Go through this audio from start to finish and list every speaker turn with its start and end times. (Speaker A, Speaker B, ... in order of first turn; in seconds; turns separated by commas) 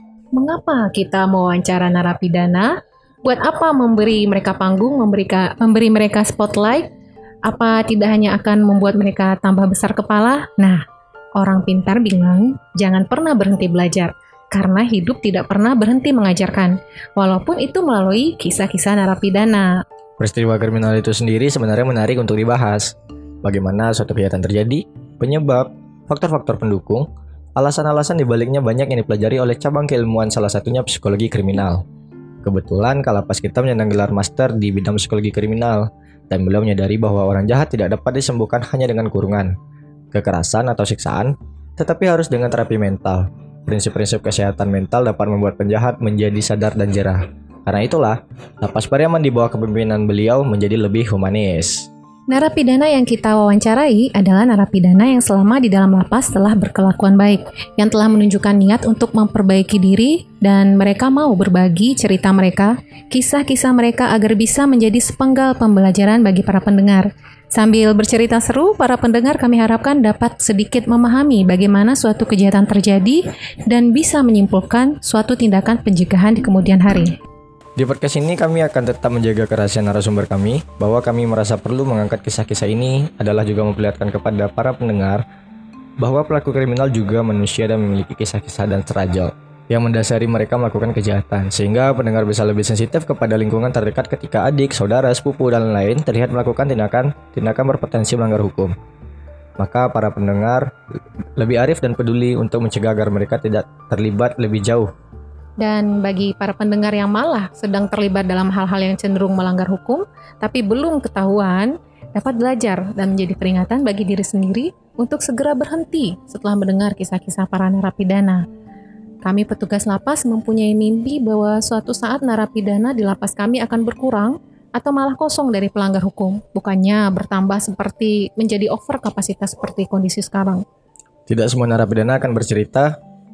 Speaker A: 0.3-6.9, Speaker A: 7.4-10.8, Speaker A: 11.4-19.8, Speaker B: 20.2-31.8, Speaker B: 32.4-39.5, Speaker B: 40.1-51.9, Speaker A: 52.3-77.2, Speaker B: 77.8-85.2, Speaker B: 86.0-98.7, Speaker B: 99.6-100.7, Speaker B: 101.4-104.9, Speaker A: 105.6-118.4, Speaker A: 119.2-130.6, Speaker B: 131.3-132.9